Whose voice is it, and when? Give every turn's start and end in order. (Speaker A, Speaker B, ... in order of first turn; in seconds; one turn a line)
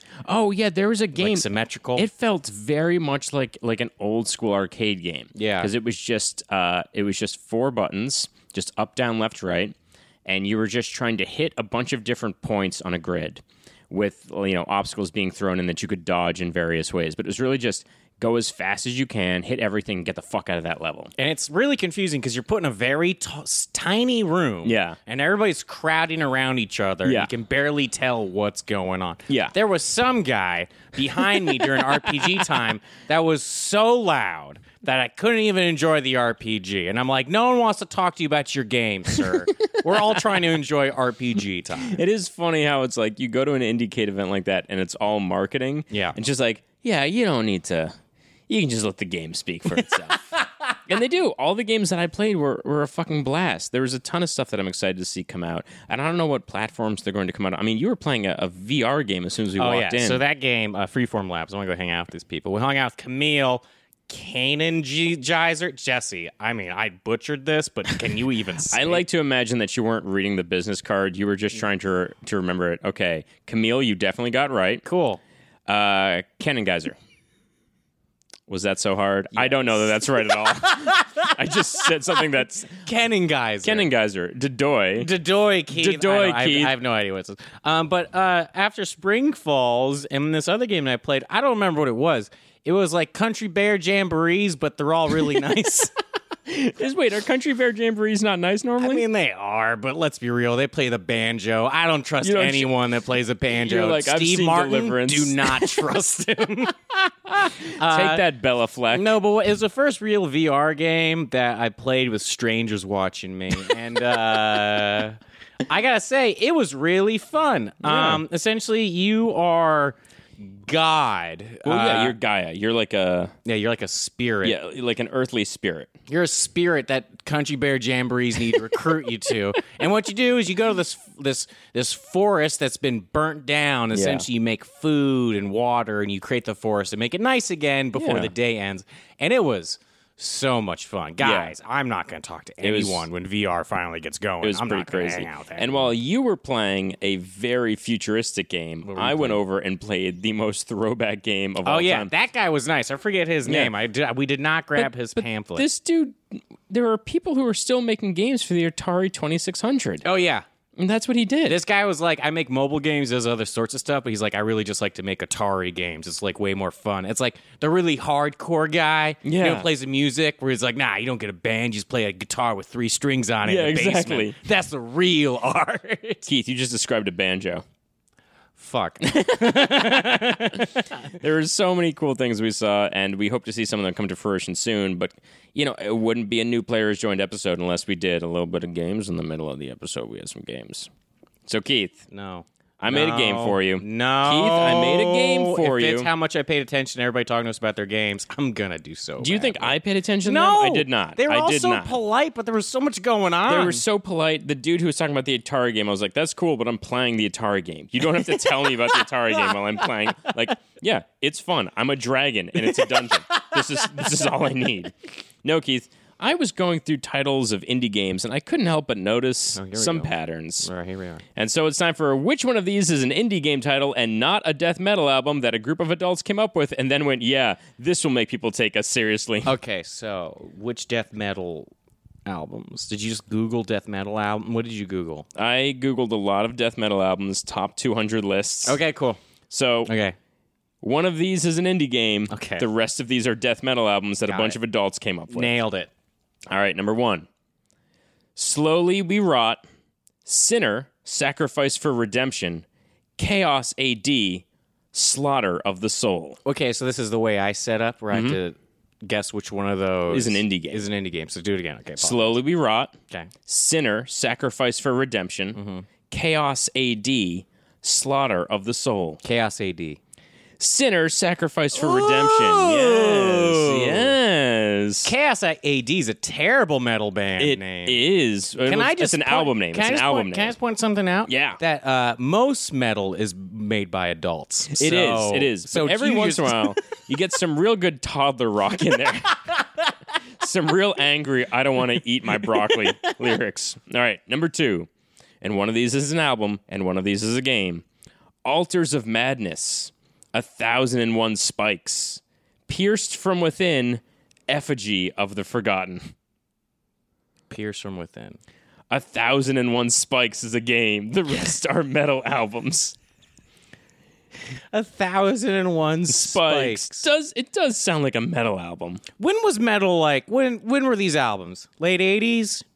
Speaker A: 0.2-21.1
Speaker B: 1.2-2.1
Speaker B: 5.3-5.7
Speaker B: 21.2-42.0
Speaker A: 24.6-25.0
Speaker A: 27.0-27.3
Speaker A: 29.3-29.5
Speaker A: 39.9-40.4
Speaker A: 41.9-47.9
Speaker B: 45.9-46.1
Speaker A: 48.5-50.3
Speaker A: 50.9-60.2
Speaker B: 59.6-69.0
Speaker A: 68.7-74.8
Speaker B: 74.8-75.2
Speaker A: 75.7-77.0
Speaker A: 78.5-82.8
Speaker B: 79.3-83.9
Speaker A: 83.6-85.1
Speaker B: 85.0-95.9
Speaker A: 85.7-86.8
Speaker A: 96.5-99.0
Speaker B: 98.8-108.3
Speaker A: 102.2-102.7
Speaker A: 103.5-105.8
Speaker A: 107.4-109.2
Speaker B: 108.9-122.2
Speaker A: 117.8-118.2
Speaker A: 121.6-123.3
Speaker B: 123.4-124.5
Speaker A: 124.4-125.9
Speaker B: 126.1-145.9
Speaker A: 133.9-134.2
Speaker A: 137.9-138.3
Speaker A: 141.2-141.5
Speaker A: 142.6-143.1
Speaker A: 144.4-152.1
Speaker B: 148.8-149.4
Speaker B: 151.6-155.7
Speaker A: 153.4-153.7
Speaker A: 154.8-160.0
Speaker B: 160.0-160.4
Speaker A: 160.8-161.6
Speaker B: 161.5-176.3
Speaker A: 169.2-169.7
Speaker A: 173.4-174.3
Speaker A: 176.3-177.6
Speaker B: 178.6-181.1
Speaker A: 179.1-190.9
Speaker A: 191.4-192.0
Speaker B: 192.1-203.8
Speaker A: 192.8-196.1
Speaker A: 199.2-201.9
Speaker A: 203.5-220.7
Speaker B: 208.2-209.7
Speaker B: 212.8-213.5
Speaker B: 219.5-221.2
Speaker A: 221.3-229.6
Speaker B: 229.4-231.7
Speaker B: 232.2-235.2
Speaker A: 235.3-238.8
Speaker B: 238.7-239.2
Speaker A: 239.5-239.9
Speaker B: 239.8-240.1
Speaker A: 240.8-245.6
Speaker B: 242.3-242.6
Speaker B: 244.3-244.6
Speaker B: 245.3-245.9
Speaker A: 246.5-247.3
Speaker A: 248.3-249.6
Speaker A: 250.2-252.7
Speaker A: 253.2-256.4
Speaker B: 256.4-262.4
Speaker A: 258.1-258.4
Speaker A: 260.1-260.8
Speaker A: 262.0-262.9
Speaker A: 263.5-265.6
Speaker B: 265.5-265.9
Speaker A: 266.1-269.2
Speaker B: 269.2-270.0
Speaker A: 270.6-275.1
Speaker B: 271.7-274.1
Speaker B: 275.0-278.0
Speaker A: 277.4-280.5
Speaker B: 278.6-286.8
Speaker A: 281.3-281.6
Speaker A: 284.7-289.5
Speaker A: 290.4-294.9
Speaker B: 292.5-293.2
Speaker A: 295.4-297.8
Speaker A: 298.4-306.1
Speaker B: 307.5-308.4
Speaker A: 308.9-312.9
Speaker B: 314.7-317.1
Speaker A: 316.1-319.0
Speaker B: 319.2-322.6